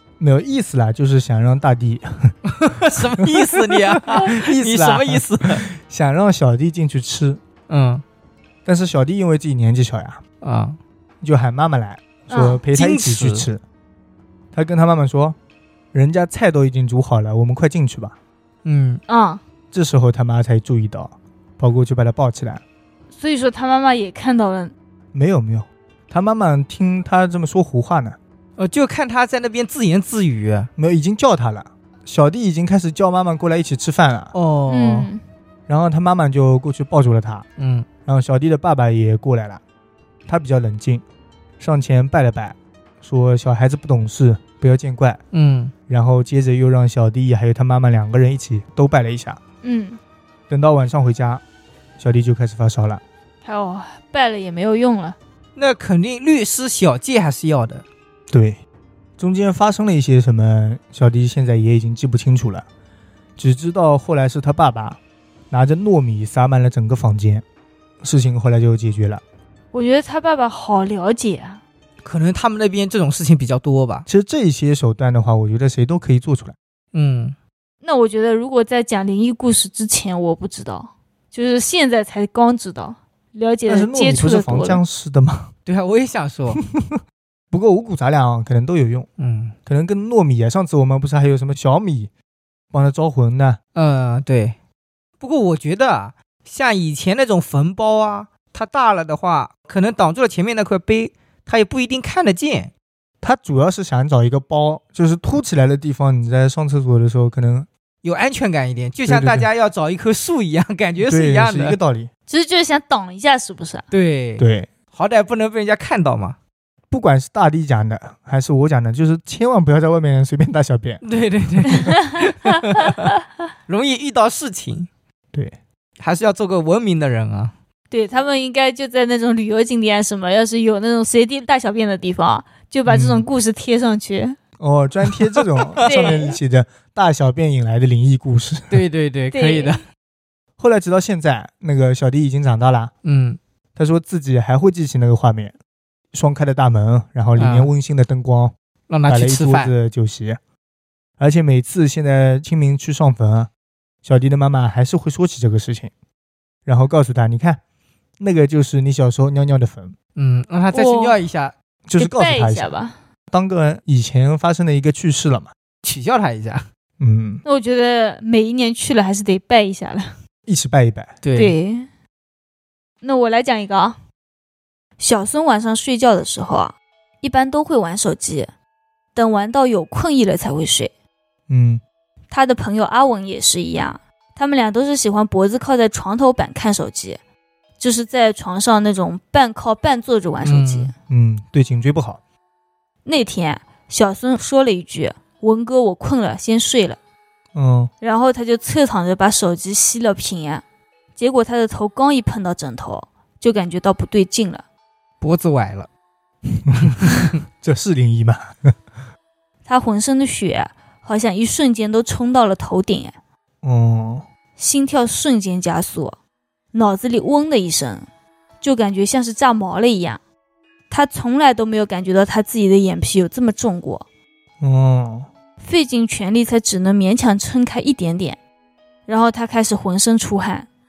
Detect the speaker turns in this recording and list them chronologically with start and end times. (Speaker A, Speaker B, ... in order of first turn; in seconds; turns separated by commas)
Speaker A: 0.2-2.3, Speaker B: 2.5-5.7, Speaker A: 3.0-7.4, Speaker B: 7.7-8.0, Speaker A: 8.6-10.2, Speaker B: 10.4-10.8, Speaker A: 11.2-13.6, Speaker C: 12.3-12.6, Speaker B: 12.7-13.5, Speaker A: 14.5-15.4, Speaker A: 15.9-18.1, Speaker B: 18.6-19.0, Speaker C: 19.1-19.4, Speaker A: 19.7-22.6, Speaker C: 23.1-24.7, Speaker A: 25.1-28.2, Speaker B: 28.6-30.7, Speaker A: 30.8-34.3, Speaker B: 34.3-35.1, Speaker C: 34.7-35.2, Speaker A: 35.7-37.4, Speaker B: 37.6-37.9, Speaker A: 38.0-39.6, Speaker A: 40.3-41.0, Speaker A: 41.6-45.2, Speaker B: 45.3-45.7, Speaker A: 45.9-49.4, Speaker C: 49.6-50.0, Speaker A: 50.5-51.4, Speaker A: 52.0-53.0, Speaker C: 53.4-55.2, Speaker B: 55.5-57.8, Speaker A: 58.3-58.6, Speaker A: 59.2-62.6, Speaker A: 63.4-67.4, Speaker A: 68.0-69.2, Speaker C: 69.7-71.6, Speaker B: 72.0-74.1, Speaker A: 74.1-76.5, Speaker B: 76.9-77.3, Speaker C: 77.8-84.8, Speaker A: 83.7-85.5, Speaker B: 85.7-86.6, Speaker A: 86.5-87.0, Speaker A: 87.5-89.1, Speaker B: 89.2-89.5, Speaker A: 89.7-92.1, Speaker A: 92.7-93.6, Speaker B: 93.7-94.5, Speaker B: 95.2-102.7, Speaker A: 103.2-107.7, Speaker B: 108.0-111.8, Speaker A: 109.0-109.5, Speaker A: 111.0-112.1, Speaker C: 112.3-113.8, Speaker B: 113.9-116.4, Speaker A: 114.4-114.7, Speaker A: 116.9-121.0, Speaker B: 121.0-123.0, Speaker C: 121.8-122.5, Speaker B: 123.7-124.9, Speaker B: 126.0-127.5, Speaker C: 127.9-134.4, Speaker A: 132.9-133.2, Speaker A: 134.6-138.8, Speaker B: 135.4-136.2, Speaker C: 135.8-136.2, Speaker B: 138.7-139.8, Speaker C: 139.3-139.8, Speaker A: 140.6-142.9, Speaker B: 143.0-143.4, Speaker A: 143.8-145.5, Speaker A: 146.1-148.5, Speaker B: 147.4-147.7, Speaker B: 148.9-149.7, Speaker A: 149.1-150.4, Speaker A: 151.2-153.5, Speaker A: 154.0-155.9, Speaker A: 156.7-157.6, Speaker A: 158.2-159.9, Speaker B: 160.2-161.5, Speaker C: 160.7-161.2, Speaker A: 161.8-162.7, Speaker C: 162.0-163.0, Speaker A: 163.3-165.5, Speaker B: 165.8-166.6, Speaker A: 167.0-167.4, Speaker C: 167.4-170.1, Speaker A: 170.5-171.1, Speaker B: 171.2-171.6, Speaker C: 171.3-171.9, Speaker C: 173.0-174.0, Speaker C: 175.0-178.5, Speaker C: 179.1-180.9, Speaker A: 181.5-181.8, Speaker C: 182.3-187.2, Speaker C: 187.8-190.9, Speaker B: 190.4-190.9, Speaker A: 191.1-192.2, Speaker C: 193.0-197.0, Speaker A: 197.5-197.9, Speaker C: 198.0-200.6, Speaker C: 201.2-204.6, Speaker B: 205.2-205.9, Speaker A: 206.7-208.8, Speaker C: 209.6-213.1, Speaker A: 213.6-214.2, Speaker C: 214.6-216.2, Speaker C: 216.7-218.1, Speaker C: 218.6-220.2, Speaker C: 220.9-224.1, Speaker A: 224.6-225.3, Speaker C: 225.6-228.4, Speaker C: 229.1-230.7